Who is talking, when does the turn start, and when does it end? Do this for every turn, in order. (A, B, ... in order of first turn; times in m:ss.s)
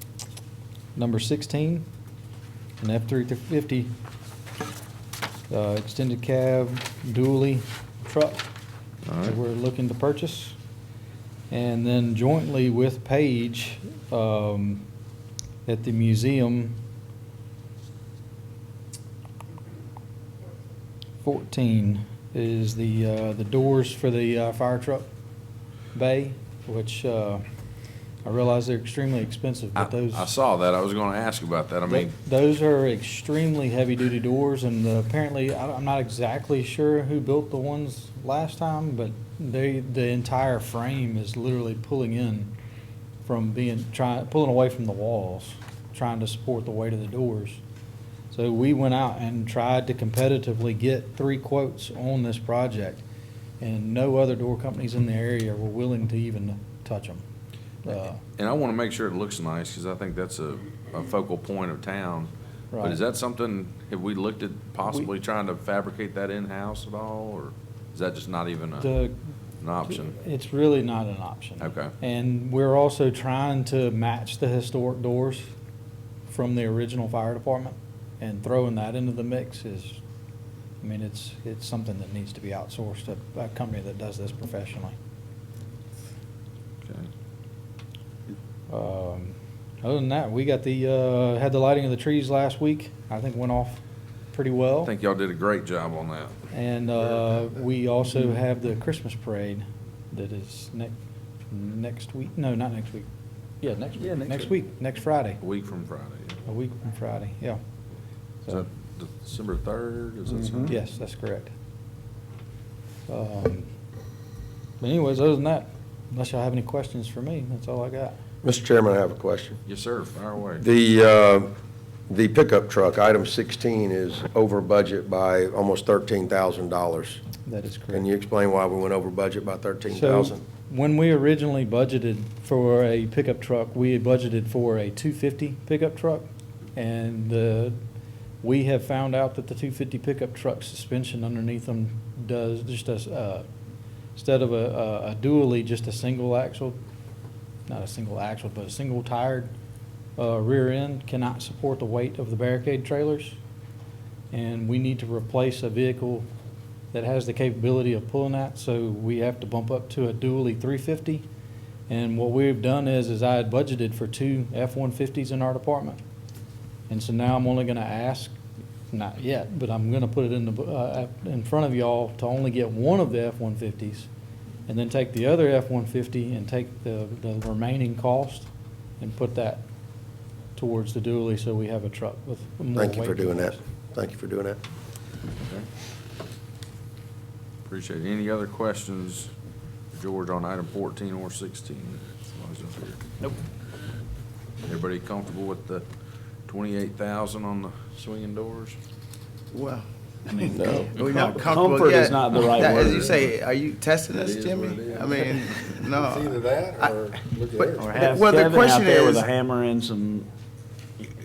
0:00.9-0:01.8 A
0:02.8-0:03.9 A
0:05.5-0:08.5 A
0:09.0-0:09.4 B
0:09.2-0:10.6 A
0:11.5-0:14.8 A
0:15.6-0:16.8 A
0:21.2-0:25.1 A
0:25.9-0:27.4 A
0:28.2-0:30.3 A
0:29.8-0:32.1 B
0:31.9-0:42.5 A
0:43.2-0:47.6 A
0:48.3-0:53.0 A
0:53.6-0:57.2 A
0:57.8-0:58.2 A
0:58.4-1:08.9 B
1:02.7-1:03.0 A
1:08.8-1:09.1 A
1:09.6-1:10.2 B
1:10.0-1:15.4 A
1:11.6-1:11.9 B
1:16.3-1:20.0 A
1:20.8-1:24.9 A
1:28.7-1:34.9 A
1:34.8-1:36.3 B
1:36.5-1:41.0 A
1:41.5-1:43.1 A
1:43.6-1:45.4 A
1:45.4-1:46.4 B
1:46.4-1:47.6 A
1:48.5-1:50.7 B
1:50.6-1:51.5 A
1:53.1-1:53.7 A
1:54.8-1:58.2 A
1:58.4-1:59.6 C
1:59.7-2:00.6 B
2:00.6-2:01.5 C
2:02.1-2:07.2 C
2:07.4-2:08.1 A
2:07.9-2:10.4 C
2:09.9-2:17.8 A
2:18.4-2:23.4 A
2:24.1-2:26.8 A
2:27.7-2:29.5 A
2:30.2-2:33.4 A
2:34.3-2:36.2 A
2:36.9-2:41.2 A
2:41.9-2:46.0 A
2:46.9-2:48.4 A
2:48.9-2:54.1 A
2:54.7-2:59.6 A
3:00.6-3:03.6 A
3:02.8-3:04.6 C
3:07.6-3:09.3 B
3:09.9-3:13.2 B
3:14.6-3:15.8 B
3:16.5-3:18.8 B
3:19.5-3:26.9 D
3:20.3-3:23.2 E
3:20.9-3:21.4 B
3:22.5-3:23.3 B
3:24.1-3:25.8 B
3:26.0-3:28.0 F
3:27.6-3:29.3 D
3:27.8-3:30.3 E